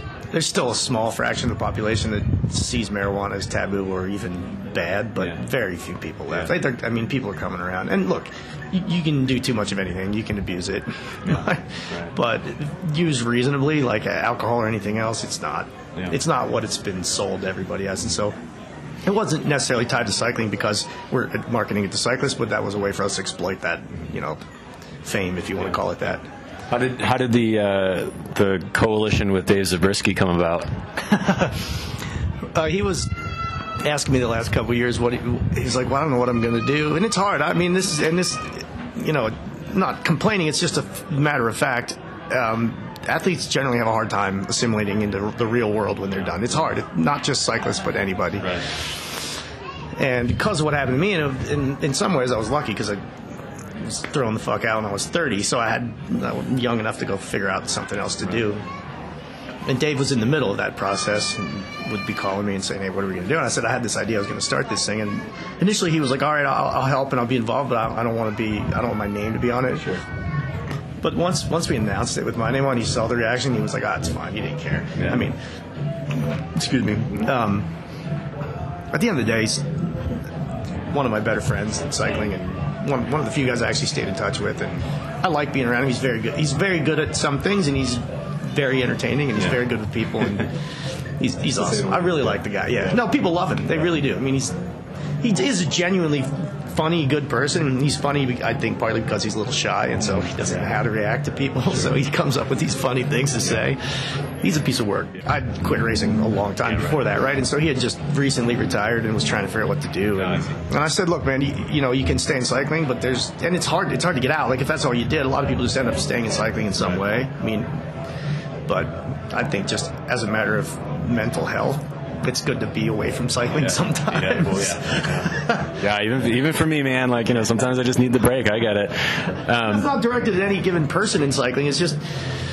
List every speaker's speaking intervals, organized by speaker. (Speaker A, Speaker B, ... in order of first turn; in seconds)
Speaker A: 0.3-18.3, 19.0-24.4, 25.0-26.2, 31.0-31.7, 32.5-33.1, 33.8-49.3, 50.0-58.6, 59.6-70.0, 71.0-75.4, 76.2-77.7, 78.9-80.2, 80.9-94.6, 95.2-117.8, 118.7-125.8, 129.6-132.0
Speaker B: 11.3-12.1, 26.7-30.7, 48.4-48.7, 91.6-92.2, 110.2-110.6, 123.5-129.9